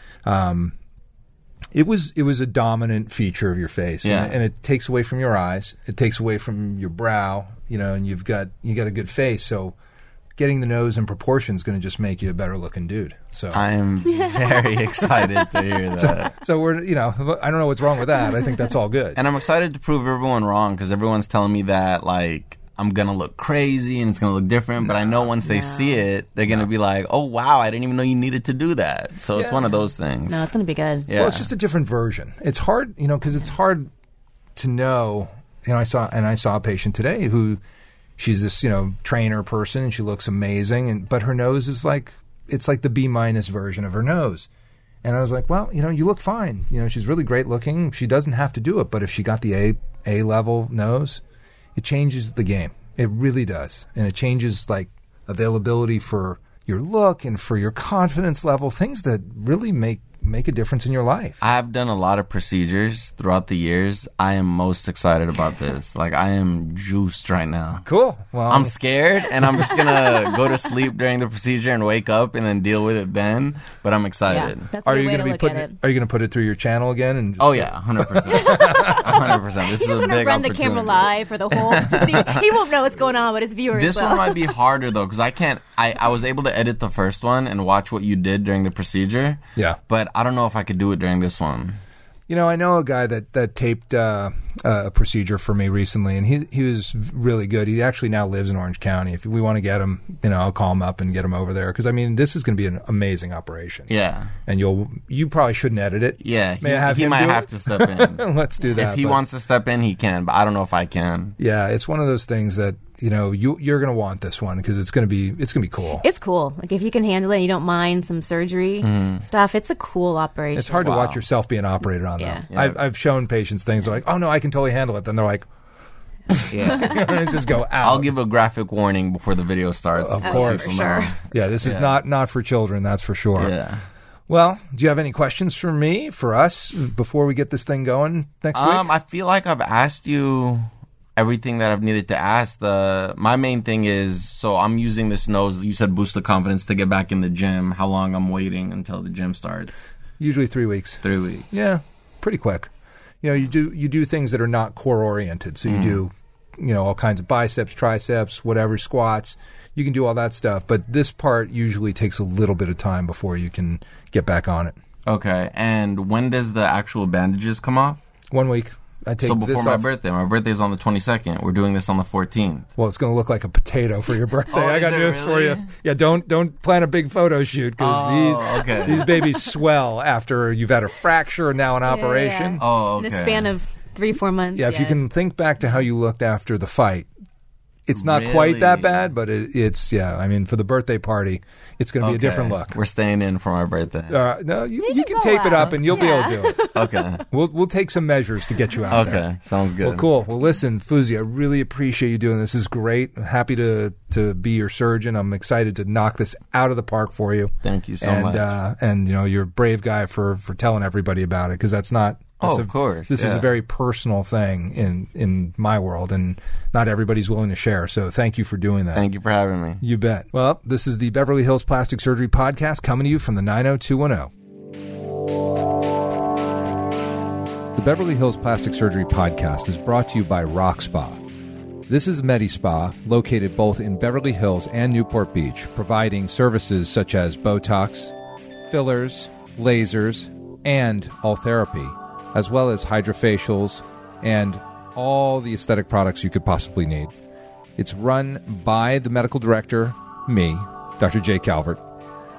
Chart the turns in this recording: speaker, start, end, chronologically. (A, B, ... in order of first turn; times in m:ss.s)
0:00.2-0:00.8 A
0:01.7-0:09.8 A
0:04.0-0:04.4 B
0:10.4-0:13.7 A
0:13.5-0:16.3 B
0:14.1-0:15.3 C
0:16.0-0:19.2 A
0:19.2-0:30.5 B
0:25.4-0:26.1 C
0:29.4-0:29.7 A
0:30.3-0:31.1 C
0:31.1-0:31.5 B
0:31.1-0:33.9 A
0:34.6-0:37.6 A
0:38.2-0:44.5 A
0:45.0-0:51.2 A
0:51.8-1:01.4 A
1:01.4-1:07.9 B
1:07.8-1:08.8 A
1:08.5-1:14.7 B
1:14.3-1:15.8 C
1:14.8-1:19.4 A
1:17.4-1:22.4 B
1:18.3-1:19.0 C
1:19.6-1:24.6 C
1:23.7-1:31.8 B
1:32.3-1:43.9 A
1:43.9-1:44.3 B
1:44.4-1:49.2 A
1:46.2-1:48.2 B
1:48.8-1:51.3 B
1:51.4-1:56.0 A
1:55.9-2:01.1 C
1:58.8-1:59.2 B
2:00.5-2:05.5 A
2:00.9-2:01.2 B
2:02.2-2:02.5 C
2:02.5-2:02.8 B
2:06.3-2:08.1 A
2:06.5-2:07.1 B
2:07.8-2:12.0 B
2:09.9-2:13.6 A
2:10.2-2:11.2 C
2:13.4-2:13.8 B
2:14.3-2:18.9 A
2:18.5-2:29.8 B
2:30.2-2:32.7 A
2:31.0-2:31.5 B
2:33.2-2:44.8 A
2:35.6-2:36.0 B
2:45.1-2:48.0 B
2:48.3-2:49.9 A
2:49.2-2:52.7 B
2:52.8-3:02.6 A
2:54.5-2:55.6 B
2:57.8-2:59.2 B
3:01.8-3:05.0 C
3:02.6-3:03.5 B
3:04.5-3:07.1 A
3:07.9-3:12.8 A
3:07.9-3:09.2 B
3:12.0-3:14.2 B
3:14.1-3:16.6 A
3:14.8-3:17.2 C
3:15.6-3:15.9 B
3:16.7-3:17.2 B
3:17.3-3:19.3 A
3:18.9-3:20.0 B
3:19.8-3:39.1 A
3:27.6-3:28.5 B
3:32.4-3:33.5 B
3:38.9-3:39.8 B
3:39.8-3:44.3 A
3:47.7-3:51.2 A
3:51.9-3:58.1 A
3:58.7-4:07.1 A
4:07.8-4:11.8 A